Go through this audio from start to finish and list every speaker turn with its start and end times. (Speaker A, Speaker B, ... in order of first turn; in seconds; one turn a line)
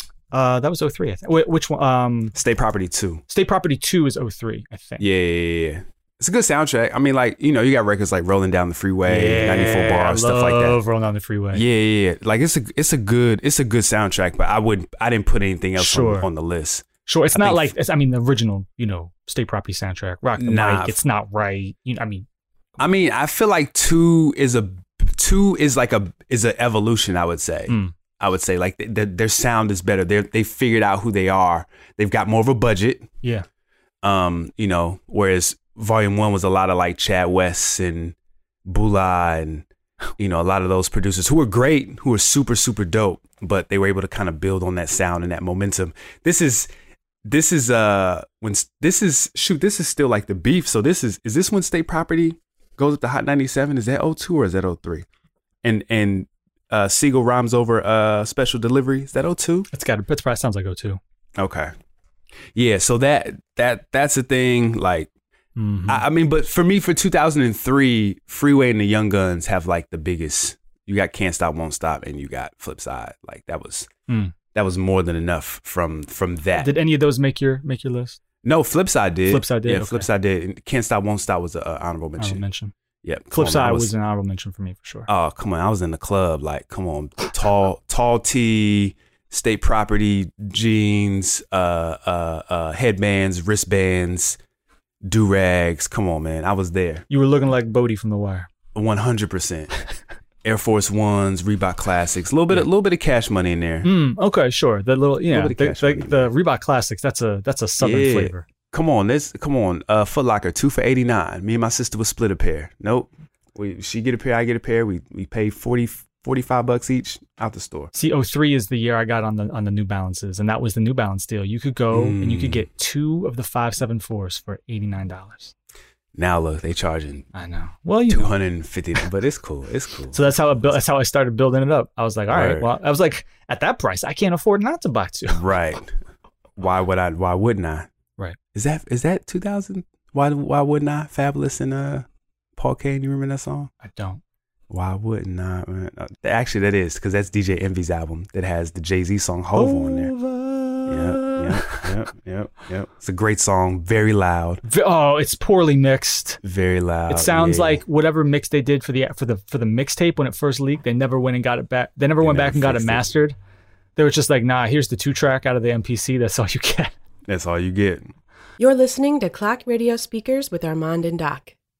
Speaker A: 0.3-2.3
Speaker B: 2.3-3.2
Speaker A: 3.3-5.0
Speaker B: 5.0-10.8
Speaker A: 9.1-11.6
Speaker B: 11.5-17.7
Speaker A: 15.8-16.3
Speaker A: 17.1-22.2
Speaker B: 20.4-21.0
Speaker B: 22.8-33.1
Speaker A: 27.7-27.9
Speaker B: 34.0-39.6
Speaker B: 40.2-46.7
Speaker B: 47.2-55.0
Speaker B: 55.6-59.7
Speaker A: 59.7-61.0
Speaker B: 61.4-61.7
Speaker B: 62.5-65.1
Speaker A: 65.5-66.0
Speaker B: 65.9-73.9
Speaker A: 74.1-74.3
Speaker B: 74.5-76.7
Speaker A: 76.6-78.2
Speaker B: 78.4-82.4
Speaker A: 79.3-80.1
Speaker A: 82.2-82.7
Speaker B: 83.0-83.9
Speaker A: 83.3-85.1
Speaker B: 85.1-94.4
Speaker B: 95.0-97.0
Speaker A: 97.1-98.5
Speaker B: 98.7-99.7
Speaker B: 100.4-103.9
Speaker A: 103.8-108.5
Speaker B: 105.3-106.2
Speaker B: 107.8-117.9
Speaker A: 117.9-125.5
Speaker B: 121.9-122.7
Speaker B: 126.1-127.3
Speaker A: 127.3-128.3
Speaker B: 128.1-130.8
Speaker A: 130.1-135.4
Speaker B: 132.3-132.7
Speaker B: 135.3-135.9
Speaker B: 136.6-137.9
Speaker B: 138.5-143.7
Speaker A: 143.8-144.2
Speaker B: 144.7-150.1
Speaker A: 149.5-151.9
Speaker B: 150.9-154.6
Speaker A: 154.6-156.4
Speaker B: 156.4-157.8
Speaker A: 157.1-163.3
Speaker B: 162.2-163.1
Speaker A: 163.9-166.9
Speaker B: 167.3-168.1
Speaker C: 168.6-171.5